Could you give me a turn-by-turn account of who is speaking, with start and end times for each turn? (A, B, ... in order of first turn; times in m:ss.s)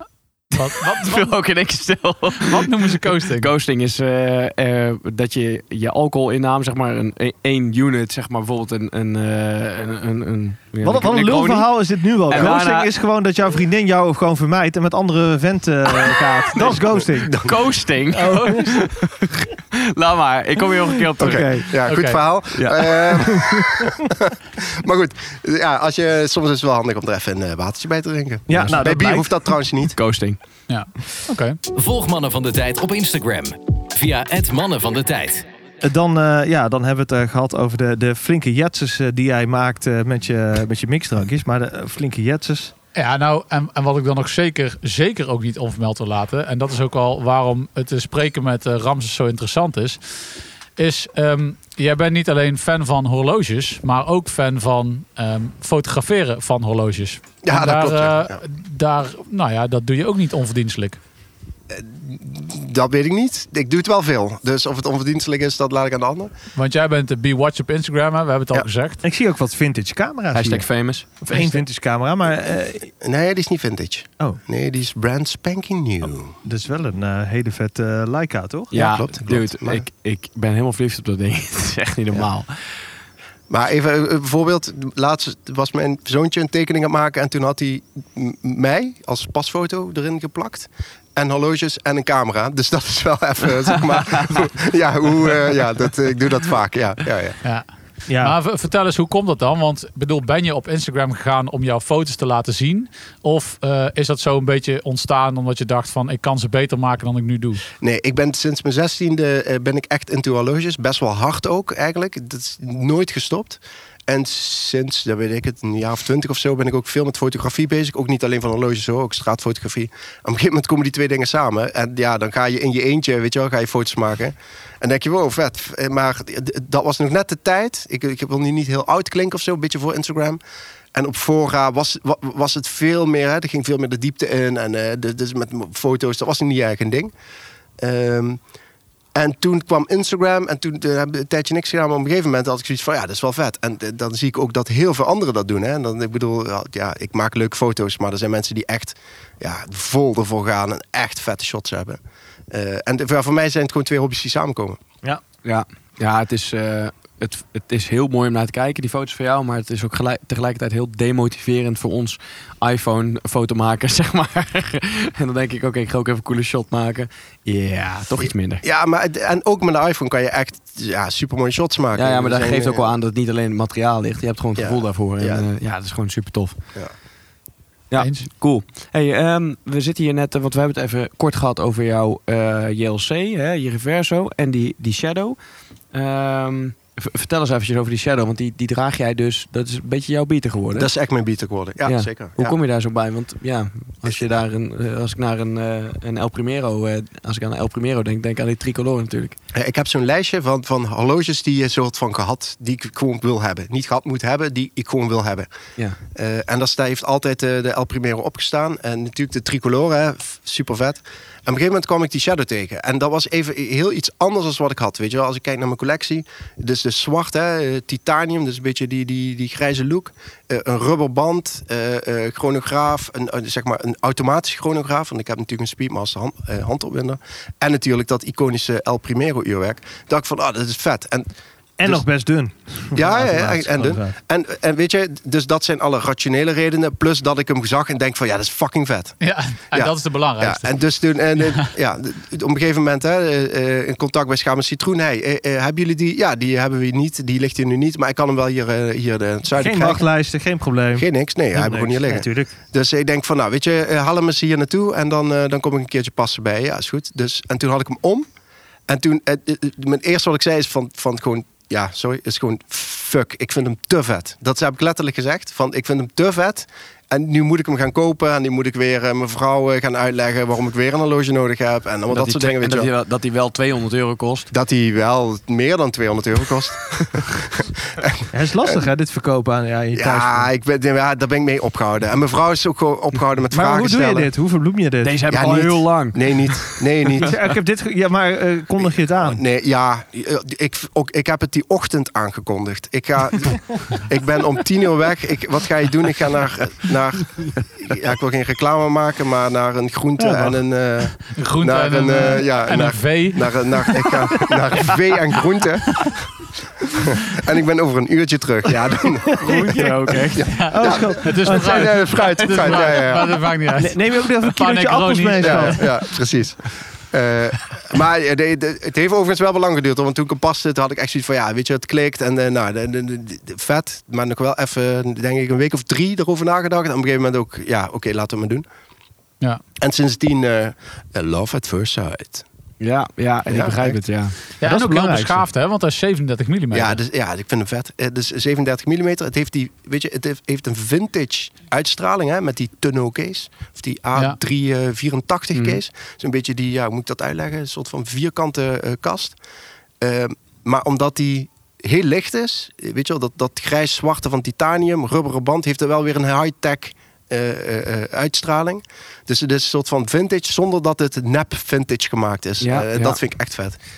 0:00.5-0:12.9 A
0:00.5-0:01.3 B
0:02.4-0:03.5 B
0:10.8-0:17.4 C
0:16.0-0:16.3 A
0:17.4-0:21.6 A
0:18.1-0:18.8 C
0:21.1-0:21.7 C
0:21.2-0:30.0 D
0:21.8-0:22.2 B
0:22.5-0:23.3 A
0:23.3-0:23.8 C
0:28.5-0:29.5 C
0:29.9-0:30.4 A
0:30.7-0:31.6 B
0:31.7-0:35.4 E
0:35.8-0:42.7 C
0:42.9-0:50.2 B
0:50.8-1:01.0 B
0:57.4-0:58.4 D
1:01.7-1:06.3 D
1:06.6-1:09.0 B
1:09.0-1:10.7 C
1:10.3-1:11.2 A
1:11.2-1:12.9 C
1:13.0-1:16.3 D
1:16.4-1:18.7 C
1:18.7-1:22.5 A
1:18.7-1:19.8 D
1:23.5-1:37.4 D
1:37.4-1:47.6 B
1:38.1-1:38.4 C
1:47.8-2:10.4 D
2:10.9-2:17.1 D
2:17.8-2:18.4 D
2:19.1-2:32.0 D
2:32.5-2:34.8 D
2:35.4-2:48.6 A
2:48.2-2:52.9 D
2:51.9-2:56.6 A
2:54.6-2:55.4 D
2:57.9-3:05.4 A
2:58.0-2:58.3 B
3:05.9-3:10.9 A
3:10.8-3:12.6 D
3:11.8-3:19.4 A
3:14.0-3:14.4 D
3:19.5-3:25.5 D
3:26.1-3:51.3 D
3:51.8-3:54.2 C
3:52.9-3:59.2 D
3:59.2-4:00.8 B
3:59.7-4:10.0 D
4:09.5-4:12.5 C
4:10.9-4:18.3 D
4:18.9-4:32.9 D
4:32.1-4:34.5 A
4:34.5-4:38.8 D
4:38.3-4:40.5 C
4:39.9-4:44.3 D
4:43.5-4:45.8 C
4:45.0-4:46.8 A
4:45.3-4:47.3 D
4:47.2-4:49.4 C
4:48.8-5:06.2 D
5:00.2-5:00.6 C
5:01.3-5:04.0 B
5:07.0-5:09.6 D
5:09.4-5:10.5 A
5:09.4-5:12.1 C
5:10.4-5:13.4 D
5:10.6-5:16.0 B
5:13.8-5:15.8 C
5:15.4-5:28.6 D
5:29.8-5:32.4 D
5:32.8-5:34.4 A
5:33.5-5:34.0 D
5:34.6-5:37.0 B
5:34.6-5:35.4 C
5:36.7-5:49.4 D
5:50.0-6:03.8 D
6:02.6-6:03.2 A